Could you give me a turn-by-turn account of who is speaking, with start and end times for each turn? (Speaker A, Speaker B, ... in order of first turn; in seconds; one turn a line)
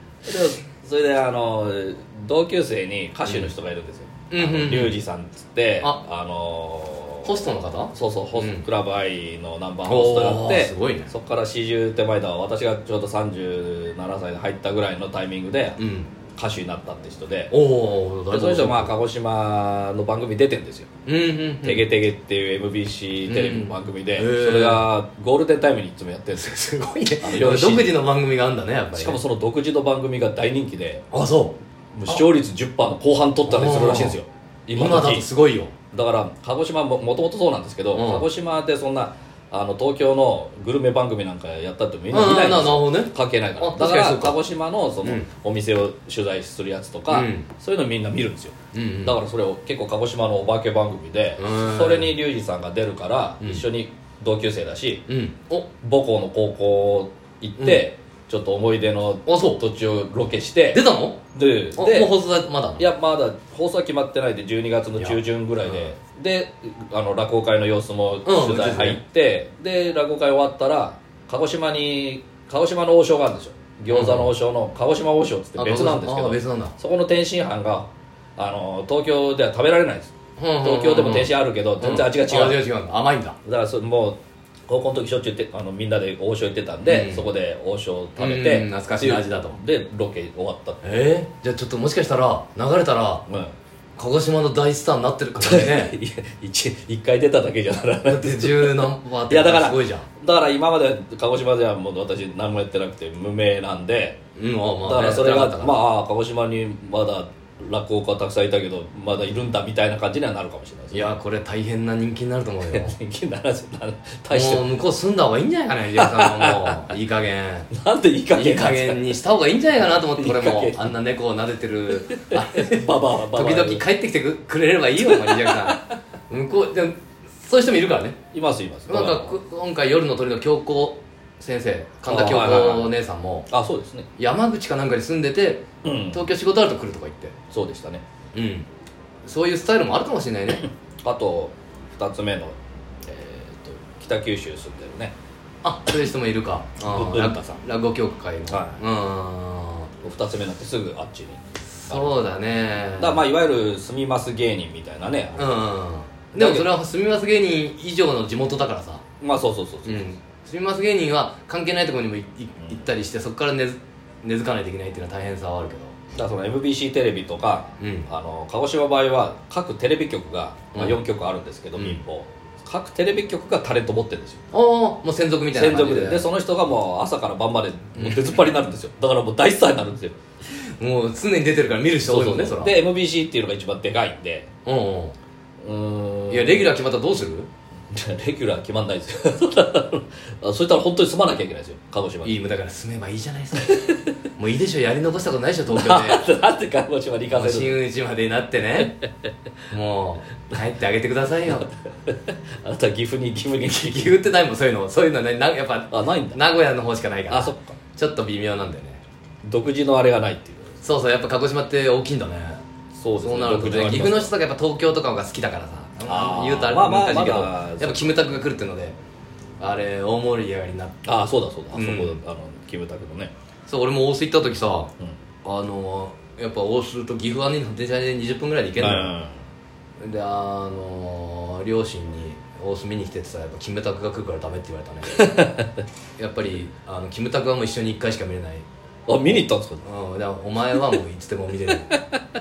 Speaker A: 0.3-7.3
Speaker B: 3.2-3.5
Speaker B: 4.3-5.0
Speaker B: 7.2-8.7
Speaker A: 7.9-15.8
Speaker B: 9.8-11.1
Speaker B: 15.8-16.1
Speaker A: 16.4-17.5
Speaker B: 17.5-18.9
Speaker A: 18.3-20.9
Speaker B: 21.1-21.9
Speaker A: 21.6-26.6
Speaker B: 23.3-24.9
Speaker B: 26.4-29.2
Speaker A: 27.2-28.0
Speaker A: 28.9-31.1
Speaker B: 31.1-32.3
Speaker A: 31.9-35.3
Speaker B: 33.5-34.2
Speaker B: 34.7-35.7
Speaker A: 35.9-55.0
Speaker B: 37.9-38.3
Speaker B: 42.1-44.4
Speaker B: 45.0-45.3
Speaker B: 47.1-47.5
Speaker B: 48.7-49.2
Speaker B: 51.4-52.2
Speaker B: 53.4-53.6
Speaker B: 55.1-55.7
Speaker A: 55.8-62.1
Speaker B: 57.6-57.9
Speaker B: 59.3-59.6
Speaker B: 60.7-61.2
Speaker B: 61.8-62.9
Speaker A: 62.8-82.7
Speaker B: 65.0-65.9
Speaker B: 68.2-69.0
Speaker B: 73.9-74.3
Speaker B: 75.6-76.8
Speaker B: 80.4-83.4
Speaker A: 83.5-90.8
Speaker B: 86.8-87.3
Speaker B: 88.2-89.6
Speaker B: 90.8-93.2
Speaker A: 93.3-93.5
Speaker B: 94.0-96.0
Speaker A: 95.4-104.2
Speaker B: 98.0-100.1
Speaker B: 104.4-105.8
Speaker A: 104.8-111.1
Speaker B: 110.9-113.0
Speaker A: 112.7-114.8
Speaker B: 114.3-117.7
Speaker A: 116.0-116.9
Speaker A: 117.7-119.2
Speaker B: 118.3-128.2
Speaker A: 120.1-121.0
Speaker A: 122.1-123.8
Speaker A: 125.0-125.8
Speaker A: 128.3-129.3
Speaker B: 128.9-133.5
Speaker A: 132.1-132.9
Speaker A: 133.5-134.1
Speaker B: 134.2-137.3
Speaker A: 135.8-136.3
Speaker A: 137.5-138.0
Speaker B: 138.3-138.7
Speaker B: 139.2-140.7
Speaker A: 141.0-142.6
Speaker A: 143.1-145.2
Speaker B: 145.6-149.9
Speaker A: 146.8-147.6
Speaker A: 148.5-148.8
Speaker A: 150.0-152.2
Speaker B: 151.7-153.3
Speaker A: 153.0-155.6
Speaker B: 155.4-159.0
Speaker A: 156.3-156.7
Speaker A: 159.2-160.1
Speaker B: 159.8-166.0
Speaker A: 166.2-174.4
Speaker B: 167.8-168.1
Speaker B: 170.7-171.0
Speaker B: 171.8-172.0
Speaker B: 174.5-176.3
Speaker A: 175.5-180.2
Speaker B: 177.9-178.4
Speaker B: 180.8-182.8
Speaker A: 182.1-184.5
Speaker B: 184.7-185.2
Speaker A: 185.6-186.7
Speaker B: 186.3-187.5
Speaker A: 187.9-192.3
Speaker B: 192.2-193.8
Speaker A: 193.6-194.1
Speaker B: 194.4-196.3
Speaker A: 195.7-197.8
Speaker B: 197.3-199.0
Speaker B: 199.7-201.7
Speaker A: 202.1-204.2
Speaker B: 203.8-209.0
Speaker A: 205.9-206.4
Speaker A: 207.3-207.8
Speaker A: 209.4-210.7
Speaker B: 210.8-212.6
Speaker A: 212.9-214.3
Speaker B: 213.2-219.0
Speaker A: 216.1-218.3
Speaker B: 219.6-221.1
Speaker A: 221.1-223.3
Speaker B: 221.7-222.2
Speaker B: 223.7-224.9
Speaker B: 225.4-229.1
Speaker A: 228.8-229.4
Speaker B: 230.0-235.2
Speaker A: 235.2-235.7
Speaker B: 236.2-238.7
Speaker A: 239.1-239.8
Speaker B: 239.3-241.9